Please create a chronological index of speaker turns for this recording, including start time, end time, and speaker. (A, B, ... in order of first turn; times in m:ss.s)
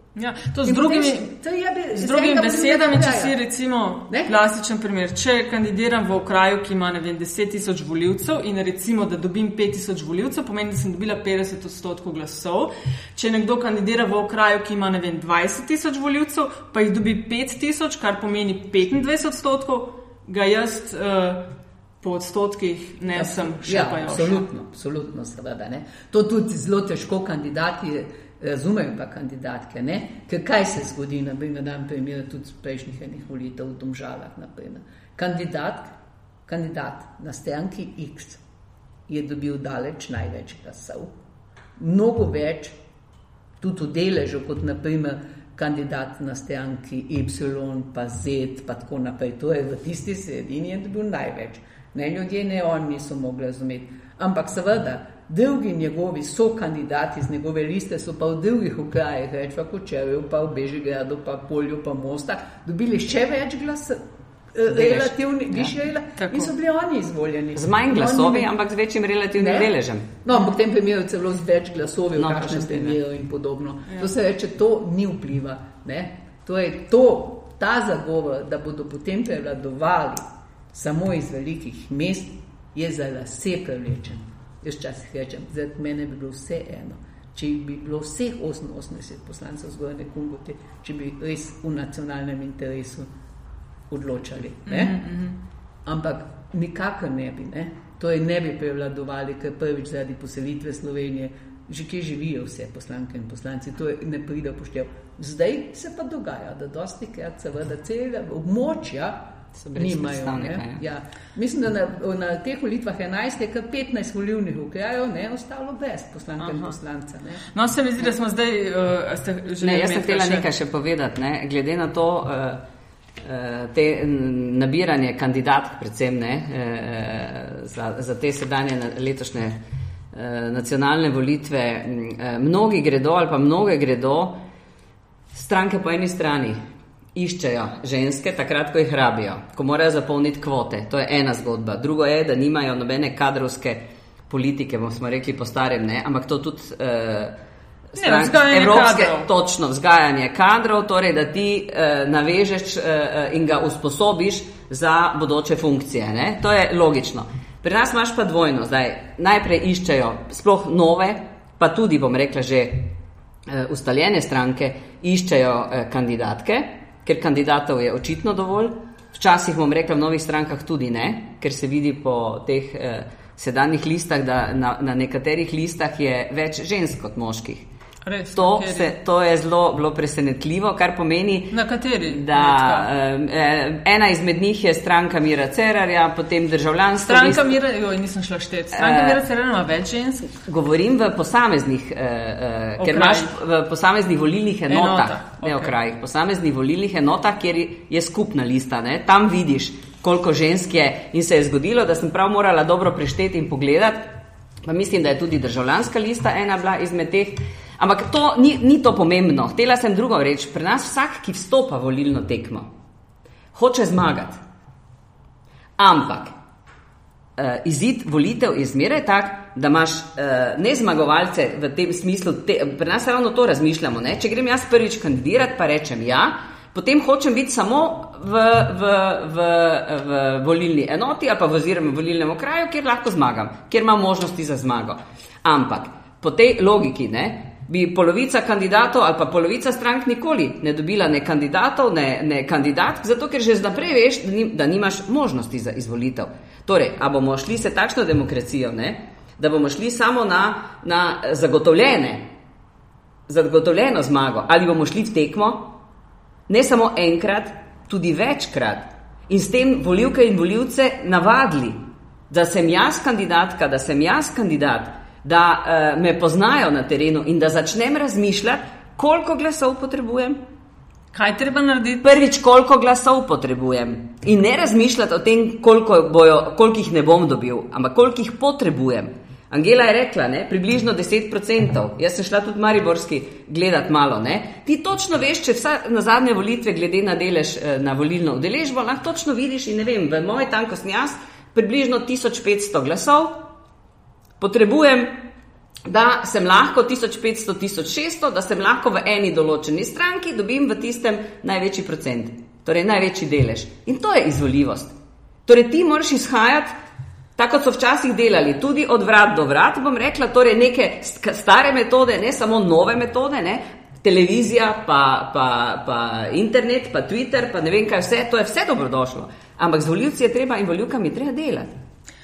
0:00.1-0:01.3 A
0:00.6-0:03.4 B
0:02.0-0:21.5 A
0:22.0-0:24.4 A
0:23.1-0:36.0 B
0:36.5-0:38.4 B
0:39.1-0:41.1 B
0:41.8-0:42.8 B
0:43.6-1:08.5 B
1:04.7-1:05.7 C
1:06.2-1:06.5 A
1:07.6-1:10.2 C
1:09.4-1:09.7 B
1:10.2-1:33.1 B
1:12.2-1:13.0 C
1:33.9-1:35.0 B
1:34.7-1:35.4 A
1:35.8-1:49.2 B
1:49.6-1:50.8 C
1:49.7-1:57.4 B
1:56.4-1:56.7 A
1:57.5-2:00.4 A
1:59.6-2:02.6 C
2:03.2-2:09.6 C
2:10.1-2:14.4 C
2:15.3-2:16.6 C
2:17.1-2:27.4 C
2:27.9-2:43.0 C
2:28.0-2:29.3 A
2:43.5-2:57.7 C
2:58.0-2:58.9 A
2:58.4-3:07.5 C
3:01.5-3:02.9 A
3:07.0-3:10.3 A
3:08.7-3:09.2 C
3:10.4-3:32.7 C
3:12.8-3:13.3 A
3:14.7-3:15.7 A
3:33.5-3:34.4 C
3:35.8-3:36.3 C
3:37.4-4:12.3 C
4:13.3-4:15.7 C
4:16.5-4:30.4 C
4:31.1-4:32.1 A
4:32.0-4:53.4 C
4:54.4-4:55.2 C
4:55.9-5:04.9 C
5:05.4-5:06.7 C
5:07.4-5:21.7 C